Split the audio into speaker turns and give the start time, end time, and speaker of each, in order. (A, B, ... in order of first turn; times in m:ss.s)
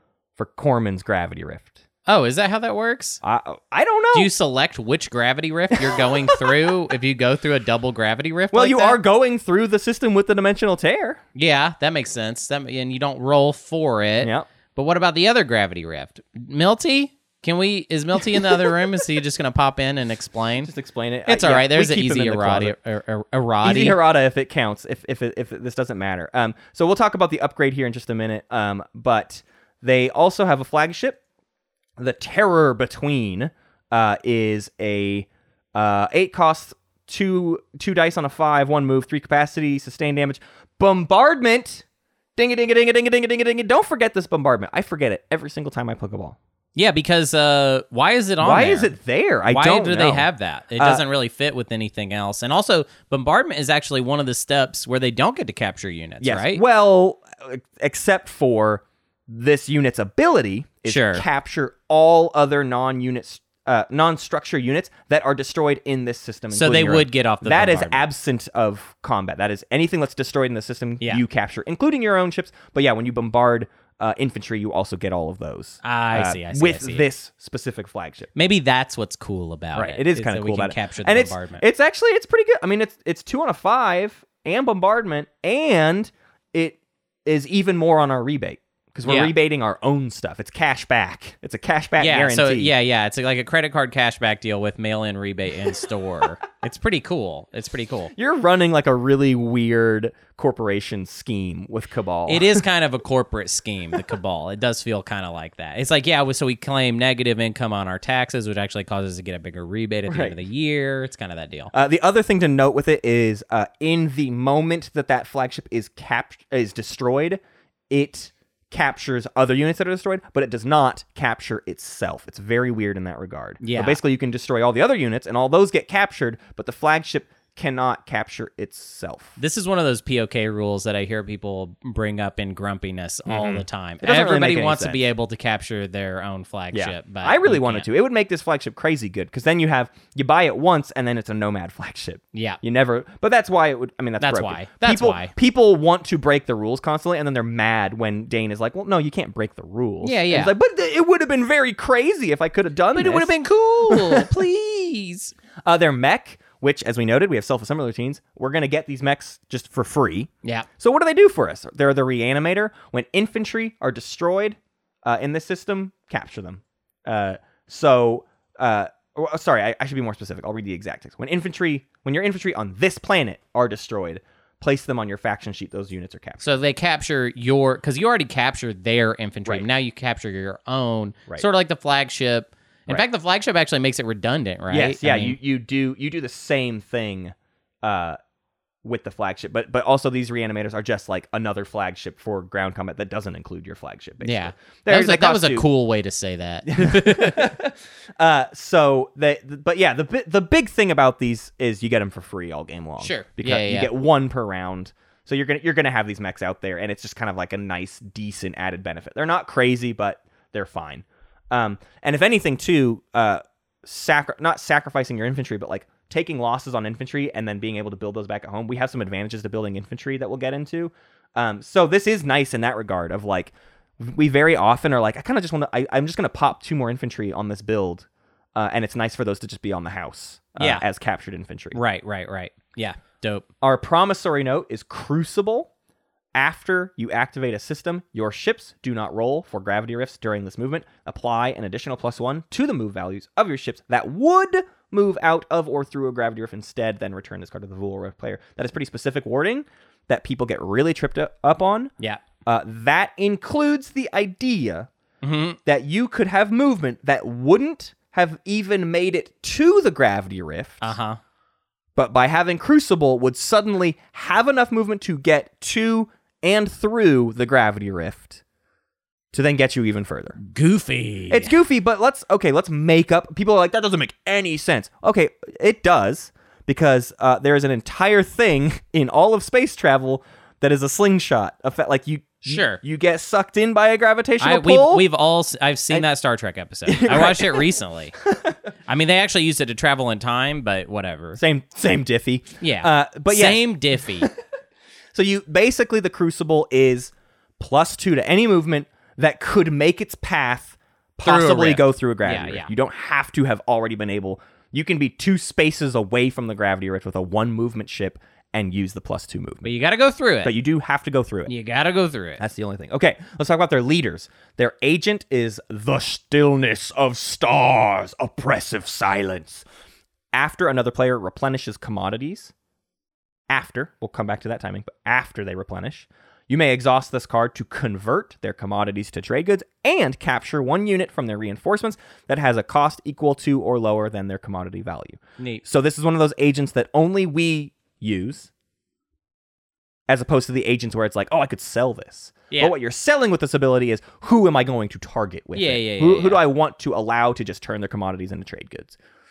0:00.4-0:01.8 A
0:02.1-0:03.2 B
0:03.2-0:04.3 A
0:04.1-0:09.0 B
0:05.7-0:06.7 A
0:08.5-0:11.2 A
0:11.4-0:20.7 B
0:14.2-0:14.5 A
0:18.4-0:18.8 A
0:20.6-0:22.8 A
0:21.3-0:24.0 B
0:23.6-0:31.2 A
0:32.0-0:41.8 A
0:42.4-0:46.4 A
0:46.8-0:48.9 B
0:48.4-0:51.0 A
0:49.5-0:56.6 B
0:56.2-1:18.3 A
1:00.9-1:01.2 B
1:06.5-1:08.1 B
1:15.8-1:17.1 B
1:18.4-1:21.6 B
1:19.7-1:32.7 A
1:29.1-1:29.3 B
1:32.0-1:38.1 B
1:38.2-1:42.6 A
1:42.3-1:51.7 B
1:50.1-1:50.4 A
1:51.7-2:09.4 A
2:03.6-2:04.0 B
2:09.4-2:17.9 B
2:13.3-2:15.1 A
2:16.7-2:33.3 A
2:22.3-2:22.6 B
2:24.2-2:25.3 B
2:30.0-2:30.5 B
2:32.9-2:35.4 B
2:33.9-2:34.3 A
2:35.7-2:56.5 A
2:56.4-3:05.4 B
3:04.7-3:08.2 A
3:08.8-3:15.7 A
3:14.2-3:17.5 B
3:16.7-3:51.8 A
3:23.0-3:23.9 B
3:50.6-3:50.8 B
3:51.7-3:53.5 B
3:53.6-3:55.7 A
3:56.4-4:11.9 A
4:12.5-4:14.9 A
4:15.2-4:15.6 B
4:15.7-4:20.9 A
4:20.8-4:21.2 B
4:22.0-4:28.4 A
4:29.3-4:30.4 A
4:30.4-4:31.6 B
4:31.3-4:45.0 A
4:42.5-4:42.8 B
4:44.4-4:48.2 B
4:46.9-4:48.6 A
4:48.9-4:51.4 B
4:51.4-4:54.3 A
4:52.6-4:54.3 B
4:55.1-5:09.7 A
5:01.2-5:02.7 B
5:09.6-5:10.5 B
5:10.4-5:11.5 A
5:11.5-5:12.4 B
5:12.4-5:19.6 A
5:20.3-5:22.5 A
5:23.5-5:38.5 A
5:40.1-5:49.0 A
5:45.6-5:46.4 B